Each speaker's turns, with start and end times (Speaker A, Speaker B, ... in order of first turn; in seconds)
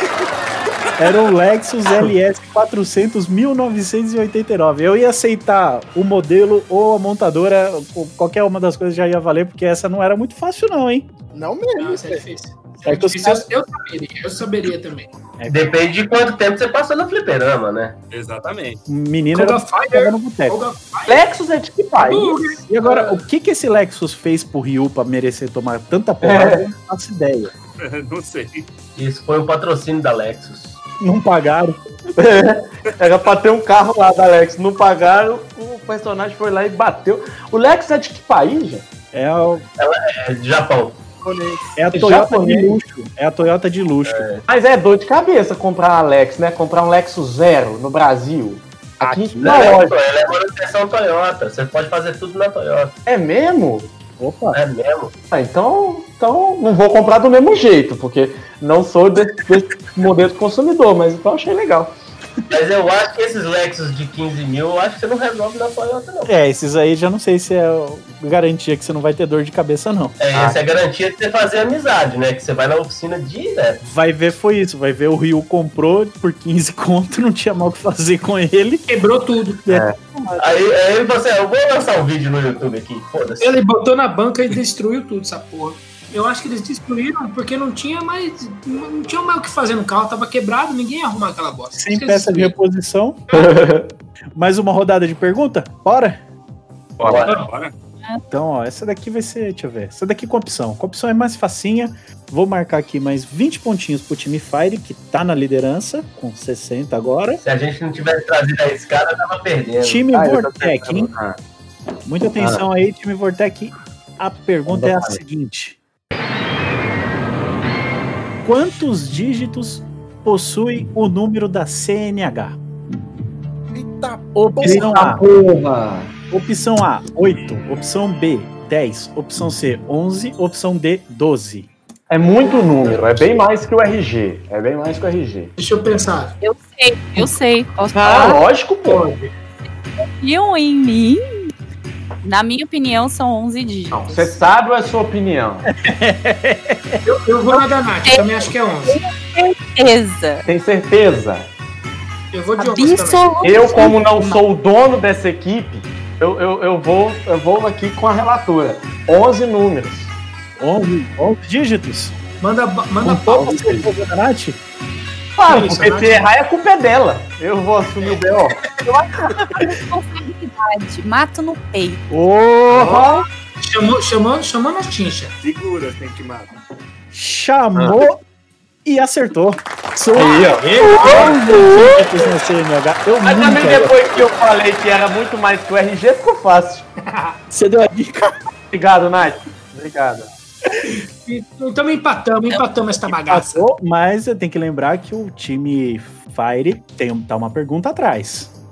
Speaker A: 1.0-11.1, 12.8-13.4, 15.4-15.7, 18.9-20.6, 22.7-27.5, 31.0-31.8, 39.1-39.6, 41.8-44.2, 49.0-49.5, 54.2-54.6, 66.3-70.2, 73.8-78.8, 79.7-80.5, 91.8-93.2, 94.3-96.2, 98.3-107.4, 109.8-111.1, 112.0-115.8, 118.4-122.6, 124.3-125.2, 126.3-131.7, 145.7-147.6, 160.6-162.1, 163.0-164.6, 172.1-173.1, 177.1-178.2, 178.8-183.9, 187.5-188.3, 193.3-198.5
Speaker B: 11.3-12.2, 41.2-41.7, 123.7-125.1
Speaker C: 11.8-15.1, 19.3-21.2, 22.0-23.2, 78.9-79.7, 83.4-92.6, 93.3-93.5, 135.6-136.3, 138.8-139.3, 147.0-149.0, 152.3-153.7, 162.4-163.5, 165.4-166.3, 173.6-175.3, 180.1-181.6, 187.0-187.4, 190.8-193.6
Speaker D: 15.5-18.0, 28.9-30.8, 39.8-41.0, 44.0-44.4, 49.4-52.9, 54.5-55.1, 62.5-66.3, 70.2-73.8, 80.4-83.6, 97.0-97.3, 107.4-110.0
Speaker E: 18.1-18.8, 27.8-28.6, 97.2-97.7, 175.4-176.5
Speaker F: 21.1-22.4, 26.2-26.6, 32.1-38.9, 41.9-42.7, 44.5-50.0, 53.1-53.9, 55.3-61.9, 79.7-80.0, 93.3-93.9, 97.0-97.4, 110.1-111.4, 112.4-112.6, 114.7-115.2, 124.6-126.1, 132.1-135.5, 137.9-139.1, 143.9-145.7, 150.4-151.5, 153.4-160.1, 163.3-163.9, 165.3-168.7, 172.7-173.2, 177.7-178.0, 180.1-182.0, 183.2-186.9, 188.7-190.3
Speaker G: 136.4-138.4, 140.0-141.5, 142.2-144.4, 148.0-150.4, 152.6-154.4, 168.8-172.1